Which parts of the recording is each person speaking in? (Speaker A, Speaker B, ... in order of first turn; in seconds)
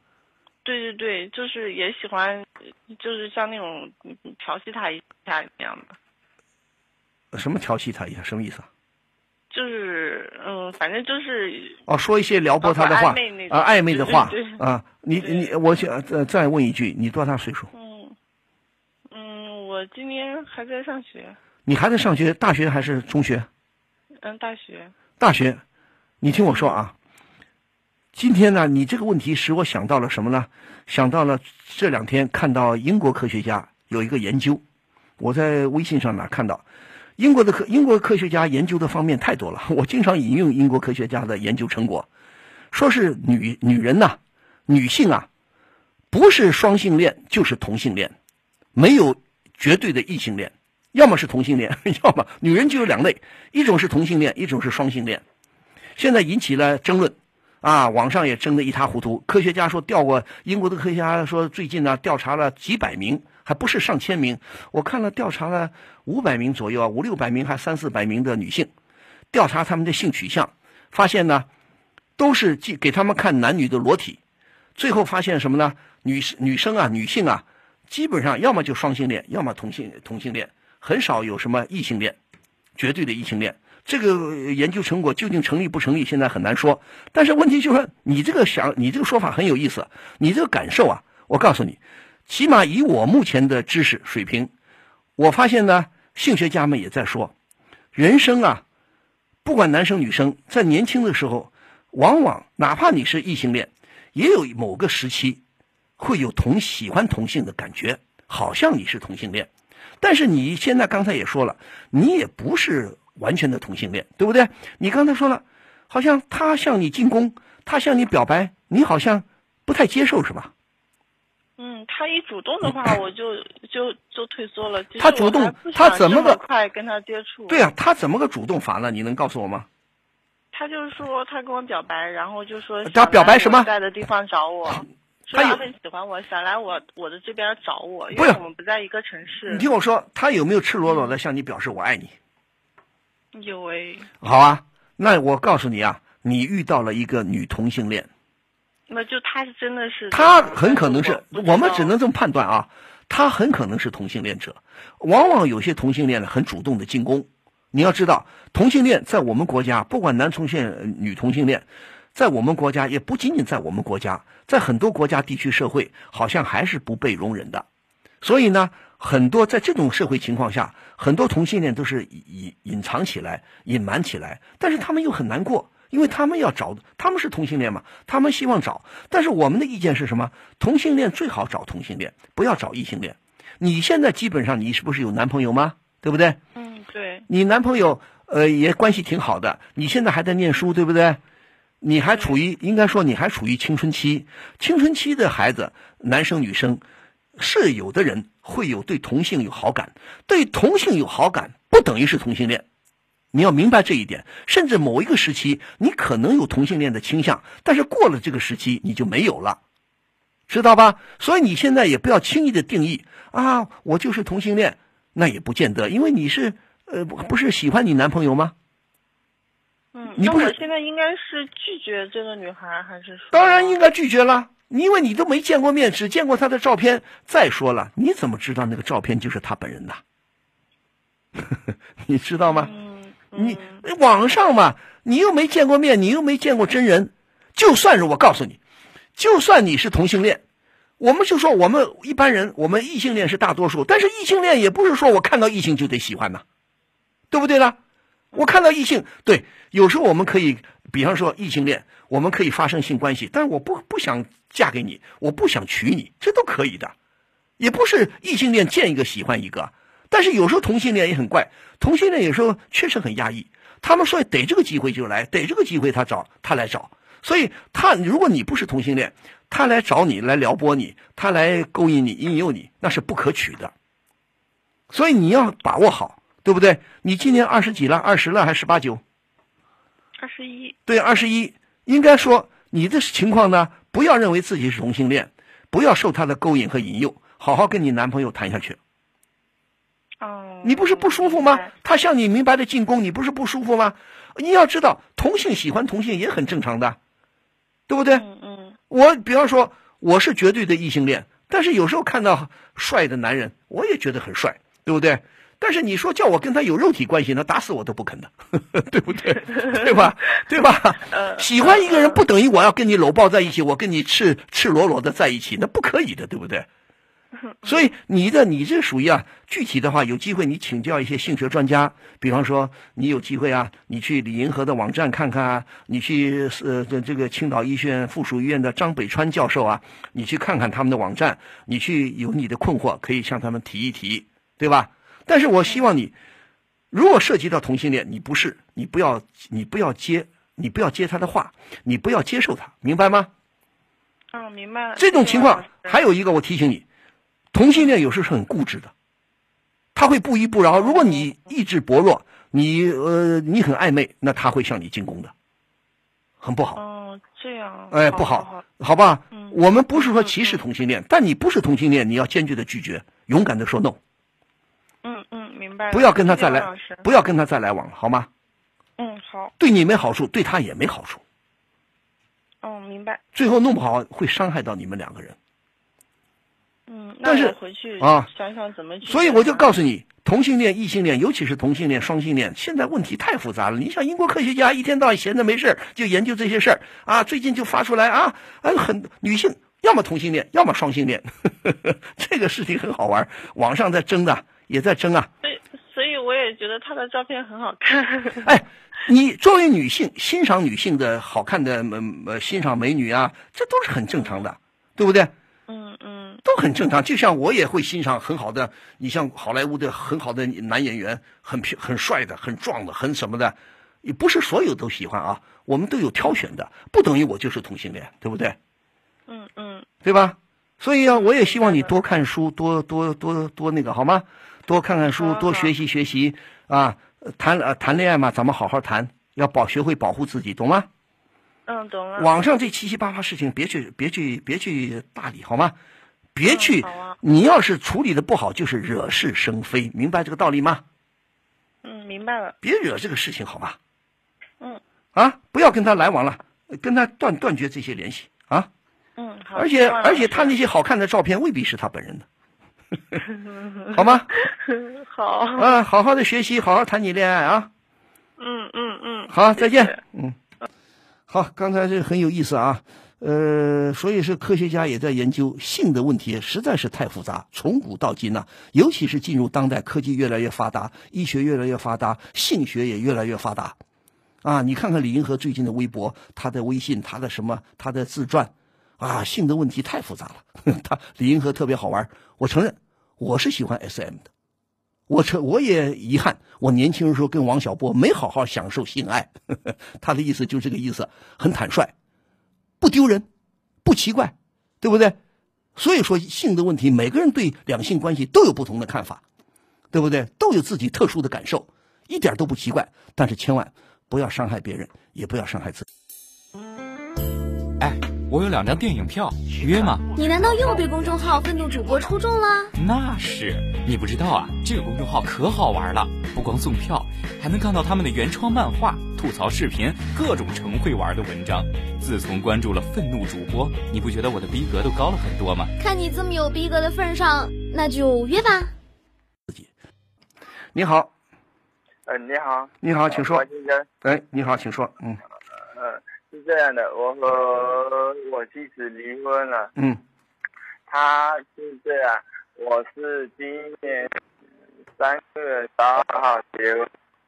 Speaker A: 0.6-6.0, 9.5-11.8, 12.6-14.6, 15.2-15.5, 17.7-18.1, 19.1-21.4, 24.2-24.9, 26.4-26.8, 121.6-127.7, 130.5-139.7, 140.8-141.2, 143.3-144.1, 148.9-151.9, 186.5-187.3, 219.9-223.8, 232.4-233.8, 280.2-280.8, 290.2-291.7, 298.1-298.8, 309.3-309.9, 311.1-312.2, 317.5-317.8, 344.3-346.0, 350.8-351.3, 356.8-358.6, 359.3-360.6, 365.0-367.1, 369.0-369.5, 372.6-373.2, 376.9-379.7, 395.4-398.5, 405.7-406.4, 419.3-419.9, 421.1-421.9, 425.1-425.7, 431.7-432.4, 436.4-437.2, 441.8-442.6, 449.2-450.6, 453.4-455.7, 458.4-460.0
Speaker B: 7.3-8.7, 11.9-17.7, 21.6-23.5, 25.2-25.6, 26.2-26.9, 28.1-34.6, 35.2-36.6, 37.2-42.1, 42.7-45.3, 46.1-48.1, 48.7-55.2, 56.0-68.7, 69.3-71.5, 72.2-74.2, 74.8-82.2, 82.8-94.5, 95.2-97.3, 97.9-98.6, 99.4-105.4, 106.0-109.5, 110.0-120.5, 125.0-126.4, 127.5-129.7, 132.8-133.7, 135.3-135.6, 139.5-142.1, 144.2-148.1, 150.1-167.6, 168.2-186.4, 187.3-191.2, 191.8-196.8, 197.4-202.6, 203.3-209.6, 210.5-218.5, 220.2-220.6, 223.3-230.0, 231.5-232.7, 233.3-238.6, 239.2-240.4, 241.0-246.4, 247.3-247.8, 248.3-256.9, 257.6-273.7, 274.9-279.0, 280.9-288.8, 290.6-297.0, 297.9-298.2, 298.9-316.7, 317.6-336.1, 336.9-343.3, 345.0-346.8, 347.5-348.9, 349.9-355.3, 356.4-356.8, 357.9-364.0, 365.9-368.3, 369.6-371.2, 373.3-375.4, 377.2-378.3, 379.0-395.3, 398.4-405.3, 406.4-418.6, 420.0-430.9, 432.2-435.8, 436.3-440.8, 442.6-443.8, 445.1-448.7, 449.6-452.2, 453.9-454.3, 455.6-457.7, 459.3-460.4, 461.3-473.8, 474.4-484.3, 485.1-491.9, 492.8-493.2, 493.8-495.2, 495.8-499.2, 499.9-505.9, 530.7-531.1, 532.8-533.4, 534.0-535.2, 539.8-540.0
Speaker C: 507.8-510.1, 512.7-525.7
Speaker D: 510.1-512.7, 525.8-528.7
Speaker E: 532.0-533.9, 535.7-539.7, 540.9-544.1, 545.0-546.9